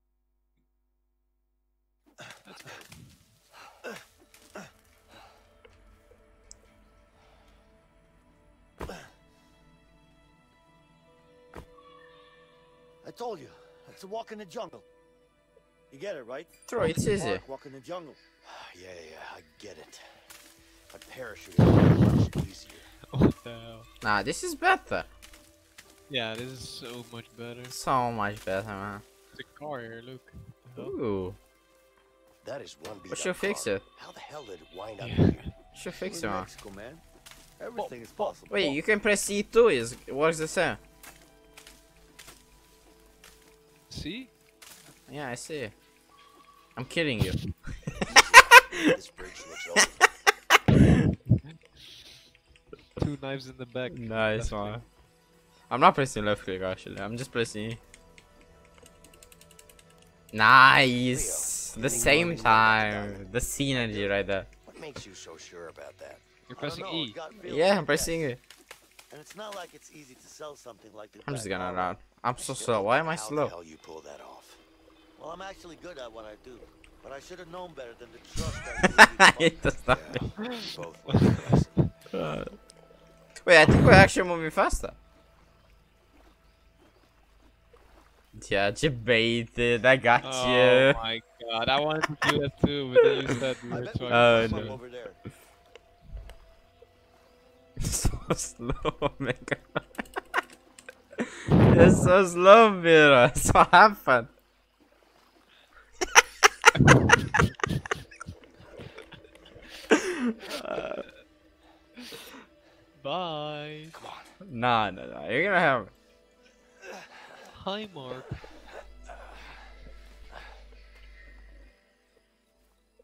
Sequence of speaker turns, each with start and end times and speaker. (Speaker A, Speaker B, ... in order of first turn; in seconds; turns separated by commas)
Speaker A: 2.4-3.2, Speaker B: 13.0-14.8, Speaker B: 15.9-20.2, Speaker C: 16.7-17.4, Speaker B: 20.9-22.9, Speaker A: 23.1-23.9, Speaker C: 24.0-25.1, Speaker A: 26.1-27.8, Speaker C: 27.7-29.0, Speaker A: 29.3-30.9, Speaker C: 30.8-31.4, Speaker B: 32.4-37.0, Speaker C: 33.1-33.8, Speaker A: 35.0-35.5, Speaker C: 35.7-36.5, Speaker B: 37.6-38.8, Speaker A: 37.7-38.3, Speaker C: 38.5-40.8, Speaker A: 43.9-44.3, Speaker C: 45.1-45.7, Speaker C: 46.8-48.0, Speaker B: 48.0-50.0, Speaker A: 51.4-52.1, Speaker A: 53.0-54.8, Speaker C: 53.9-54.8, Speaker C: 55.7-57.8, Speaker C: 60.3-64.5, Speaker B: 61.1-68.2, Speaker A: 66.5-67.2, Speaker C: 67.3-68.4, Speaker B: 69.1-74.6, Speaker C: 71.2-73.5, Speaker B: 75.2-81.7, Speaker C: 78.8-80.3, Speaker A: 81.1-81.9, Speaker C: 82.1-82.5, Speaker C: 83.4-85.0, Speaker C: 88.3-91.0, Speaker A: 90.2-94.8, Speaker B: 93.7-95.2, Speaker C: 94.1-94.8, Speaker C: 97.8-100.0, Speaker C: 101.2-104.3, Speaker A: 106.7-107.5, Speaker C: 109.9-111.0, Speaker A: 110.8-111.2, Speaker A: 113.0-114.0, Speaker B: 113.9-114.3, Speaker C: 114.4-115.9, Speaker A: 117.4-118.4